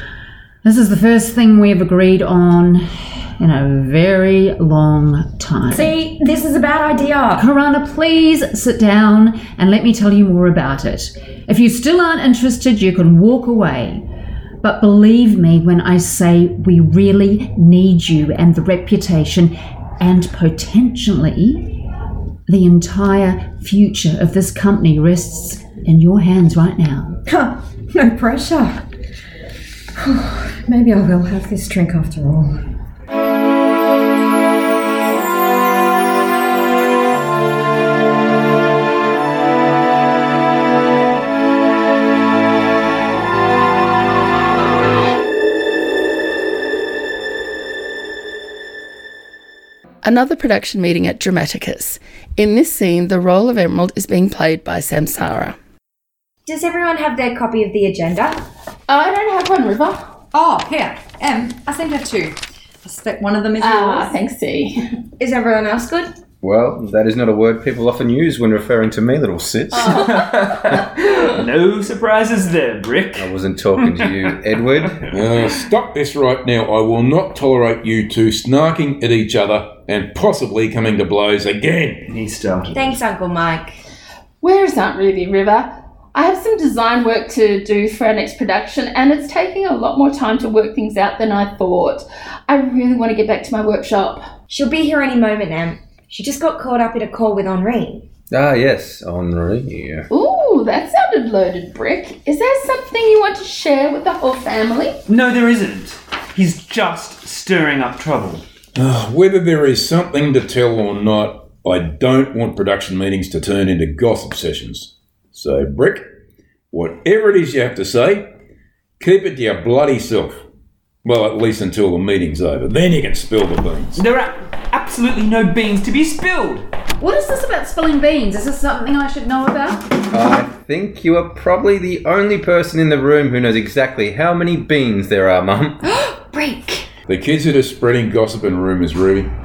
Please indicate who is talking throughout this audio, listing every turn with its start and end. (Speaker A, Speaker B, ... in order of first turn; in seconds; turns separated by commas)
Speaker A: 0.6-5.9, Speaker B: 5.7-7.5, Speaker A: 7.3-14.0, Speaker A: 14.6-21.8, Speaker A: 22.5-27.2, Speaker B: 27.2-28.9, Speaker B: 29.9-32.6, Speaker C: 50.0-55.5, Speaker D: 56.5-58.4, Speaker E: 58.9-60.0, Speaker F: 60.3-64.1, Speaker E: 63.6-64.8, Speaker D: 65.2-66.1, Speaker G: 66.4-70.2, Speaker E: 69.8-70.1, Speaker H: 69.8-75.4, Speaker G: 73.2-75.0, Speaker I: 75.1-82.1, Speaker H: 82.1-82.9, Speaker D: 82.7-83.8, Speaker E: 84.4-94.2, Speaker D: 94.5-98.0, Speaker G: 98.3-100.1, Speaker E: 100.1-105.0, Speaker H: 105.1-108.4, Speaker I: 108.7-116.1, Speaker I: 116.7-118.3, Speaker I: 119.0-120.4, Speaker I: 121.0-124.0, Speaker H: 124.0-126.7, Speaker A: 127.0-129.8, Speaker G: 130.1-135.8, Speaker B: 135.9-136.8, Speaker I: 137.1-139.3